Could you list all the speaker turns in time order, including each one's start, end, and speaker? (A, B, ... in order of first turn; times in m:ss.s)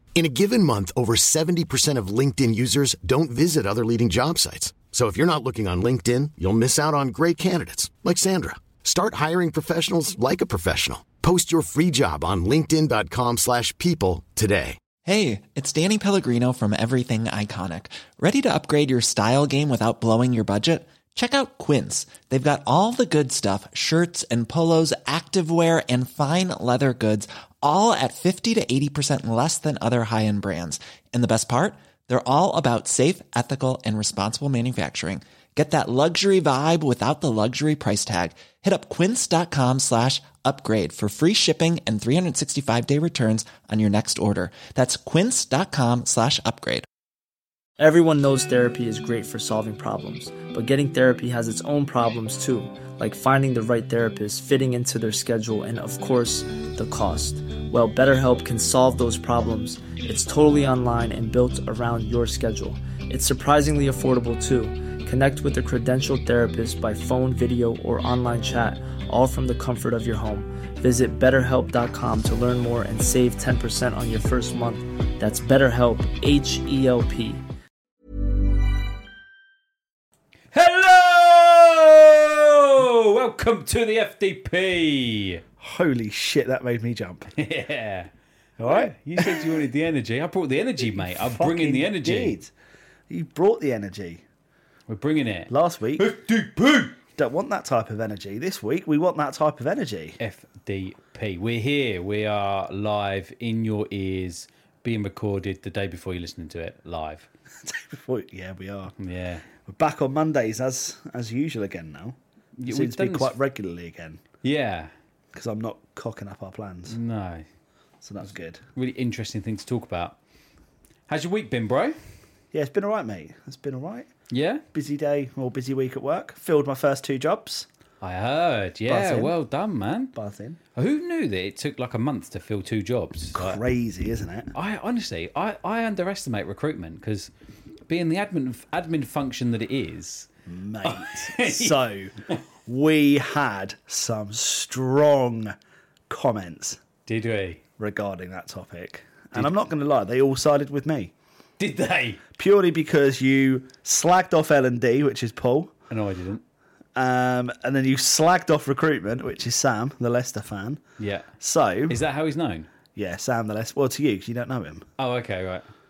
0:00.1-0:14.8 A
0:15.0-0:46.8 B
0:47.8-1:17.4 C
1:20.5-1:25.4 D
1:25.6-1:27.3 E
1:27.3-1:28.1 D
1:28.6-1:29.6 E
1:28.6-1:32.3 D
1:30.8-1:32.5 E
1:33.1-1:34.2 E
1:34.9-1:37.0 D
1:35.5-1:36.1 E
1:37.1-1:40.2 E
1:40.2-1:47.3 D
1:47.6-1:49.0 E
1:49.0-1:49.4 D
1:49.6-1:54.3 E
1:52.6-1:53.3 D
1:54.4-1:54.9 D
1:55.3-1:57.0 E
1:56.9-1:57.4 D
1:58.0-1:58.6 E
1:58.7-2:00.2 D
2:01.1-2:02.0 D
2:02.5-2:04.1 E
2:04.3-2:04.6 D
2:04.7-2:07.7 E
2:08.0-2:10.2 D
2:08.9-2:09.3 E
2:10.1-2:10.6 E
2:10.7-2:13.6 D
2:13.3-2:14.5 E
2:14.5-2:17.3 D
2:17.9-2:20.3 D
2:20.5-2:22.1 E
2:20.8-2:21.7 D
2:22.6-2:25.5 E
2:26.1-2:26.8 E
2:27.0-2:27.6 D
2:27.8-2:31.1 E
2:31.6-2:32.2 D
2:32.4-2:35.7 E
2:35.9-2:36.4 D
2:37.0-2:40.8 E
2:41.0-2:41.3 D
2:41.4-2:42.0 E
2:41.9-2:42.7 D
2:42.9-2:44.9 E
2:45.0-2:45.7 D